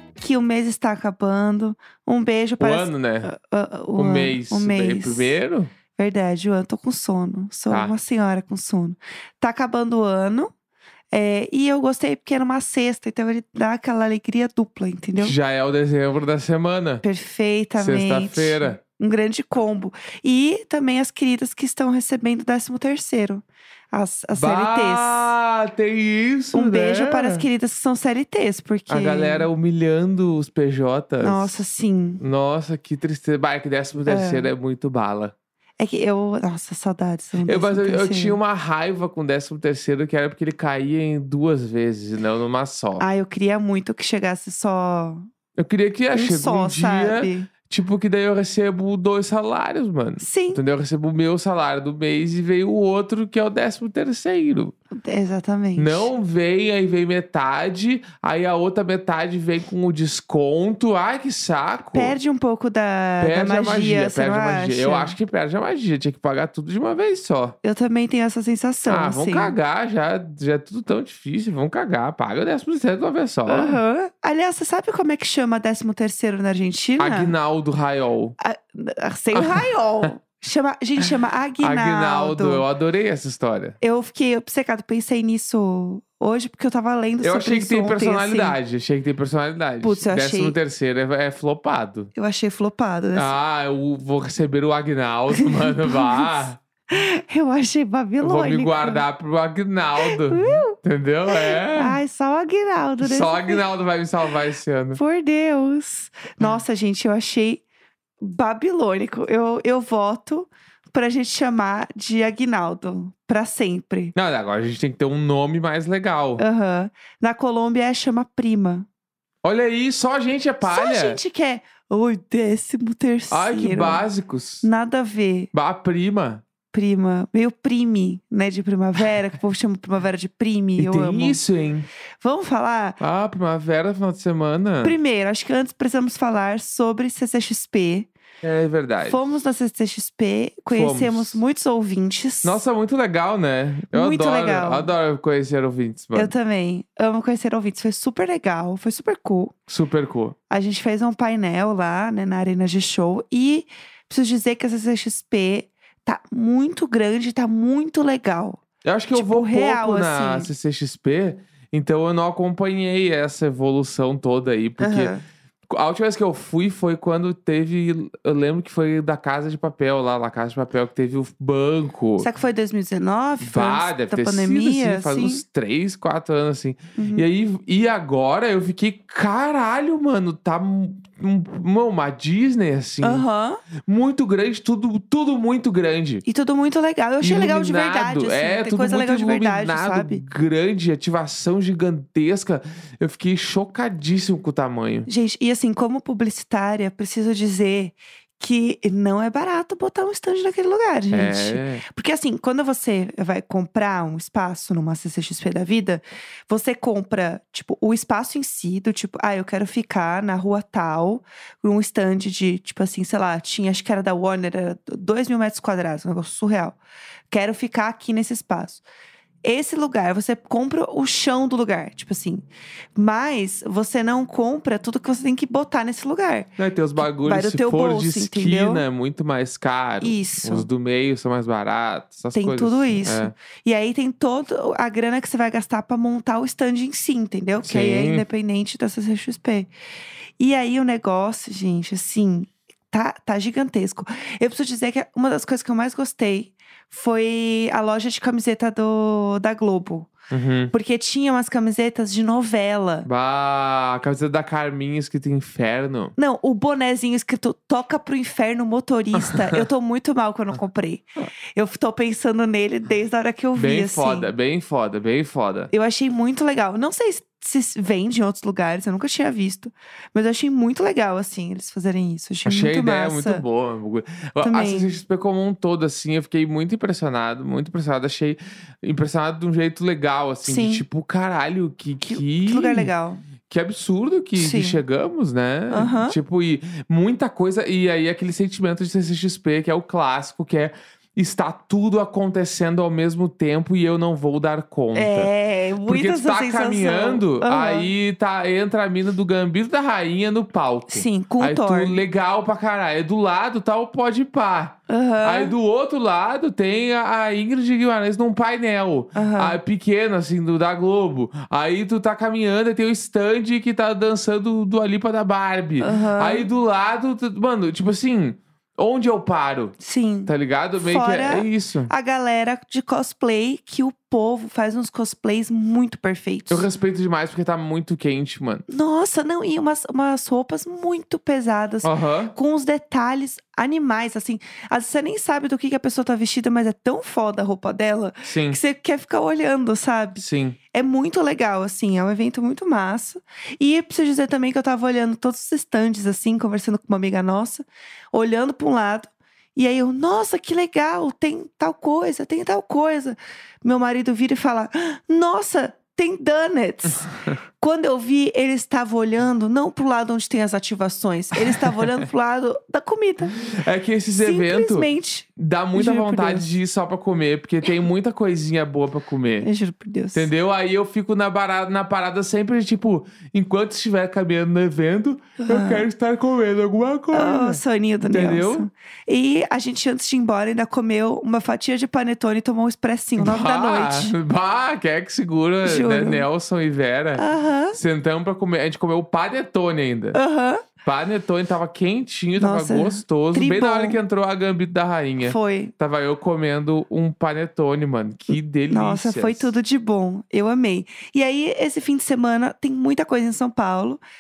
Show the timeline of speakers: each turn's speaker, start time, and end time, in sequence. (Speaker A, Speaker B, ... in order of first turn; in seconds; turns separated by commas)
Speaker A: 0.2-5.4, Speaker B: 2.6-3.3, Speaker B: 4.0-5.7, Speaker A: 6.0-10.5, Speaker B: 7.7-7.9, Speaker A: 11.1-15.3, Speaker B: 15.2-17.0, Speaker A: 17.0-25.4, Speaker B: 17.8-18.8, Speaker B: 24.3-27.4, Speaker A: 26.5-29.5, Speaker B: 28.9-31.6, Speaker A: 31.2-32.2, Speaker B: 32.2-35.3, Speaker A: 34.1-34.5, Speaker A: 35.8-38.4, Speaker B: 37.5-43.0, Speaker A: 43.0-45.3, Speaker B: 45.6-54.7, Speaker A: 46.1-47.5, Speaker A: 50.2-50.6, Speaker A: 54.9-56.1, Speaker B: 55.8-62.2, Speaker A: 61.9-65.2, Speaker B: 63.2-67.6, Speaker A: 67.6-69.5, Speaker B: 68.9-73.8, Speaker A: 73.5-77.3, Speaker B: 77.0-78.4, Speaker A: 78.4-82.7, Speaker B: 79.3-80.1, Speaker B: 81.6-83.8, Speaker A: 83.8-88.6, Speaker B: 87.2-92.1, Speaker A: 89.8-90.6, Speaker A: 92.2-93.3, Speaker B: 93.2-96.6, Speaker A: 95.3-96.4, Speaker A: 96.9-99.0, Speaker B: 98.2-102.0, Speaker A: 100.0-100.8, Speaker A: 101.3-103.7, Speaker B: 103.0-105.0, Speaker A: 105.0-107.6, Speaker A: 108.2-114.1, Speaker B: 114.2-116.4, Speaker A: 116.4-118.9, Speaker B: 119.4-121.2, Speaker A: 120.6-124.0, Speaker B: 123.3-124.7, Speaker A: 124.6-125.5, Speaker B: 125.5-126.4, Speaker A: 126.7-131.4, Speaker B: 130.8-131.9, Speaker A: 132.2-133.0, Speaker B: 133.0-135.0, Speaker A: 134.8-138.1, Speaker B: 138.4-139.2, Speaker A: 139.1-142.6, Speaker B: 140.7-141.4, Speaker B: 142.4-146.3, Speaker A: 143.9-144.9, Speaker A: 146.2-149.6, Speaker B: 149.7-150.4, Speaker A: 150.5-158.6, Speaker B: 158.8-165.2, Speaker A: 159.1-160.5, Speaker A: 164.8-165.2, Speaker B: 165.7-172.3, Speaker A: 172.2-175.4, Speaker B: 173.4-183.3, Speaker A: 177.0-177.3, Speaker A: 183.0-183.6, Speaker B: 183.8-186.2, Speaker A: 186.2-190.2, Speaker B: 187.2-195.1, Speaker A: 195.1-216.8, Speaker B: 201.1-201.8, Speaker A: 217.3-218.8, Speaker A: 219.4-228.8, Speaker B: 226.6-233.3, Speaker A: 230.0-230.7, Speaker A: 232.3-239.7, Speaker B: 237.7-238.2, Speaker A: 240.4-250.1, Speaker B: 250.3-250.7, Speaker A: 250.7-253.1, Speaker B: 253.1-256.1, Speaker A: 256.2-264.3, Speaker B: 259.2-259.6, Speaker B: 263.6-265.7, Speaker A: 265.7-273.4, Speaker B: 272.5-295.3, Speaker A: 274.4-274.9, Speaker A: 280.4-280.8, Speaker A: 282.0-283.2, Speaker A: 284.4-284.8, Speaker A: 285.7-286.2, Speaker A: 294.9-297.9, Speaker B: 295.9-319.8, Speaker A: 300.9-302.0, Speaker A: 304.9-305.5, Speaker A: 309.1-309.6, Speaker A: 315.8-316.5, Speaker A: 319.8-326.7, Speaker B: 320.3-321.9, Speaker B: 326.5-328.6, Speaker A: 328.7-363.4, Speaker B: 331.8-332.3, Speaker B: 338.2-338.6, Speaker B: 340.2-340.6, Speaker B: 361.5-362.0, Speaker B: 363.4-369.5, Speaker A: 364.2-366.5, Speaker A: 369.4-370.3, Speaker B: 370.1-378.7, Speaker A: 375.4-375.9, Speaker A: 377.1-384.1, Speaker B: 383.2-390.2, Speaker A: 385.6-386.2, Speaker A: 387.1-387.8, Speaker A: 390.1-390.7, Speaker B: 390.8-399.5, Speaker A: 392.4-394.0, Speaker A: 395.2-395.7, Speaker A: 398.7-404.0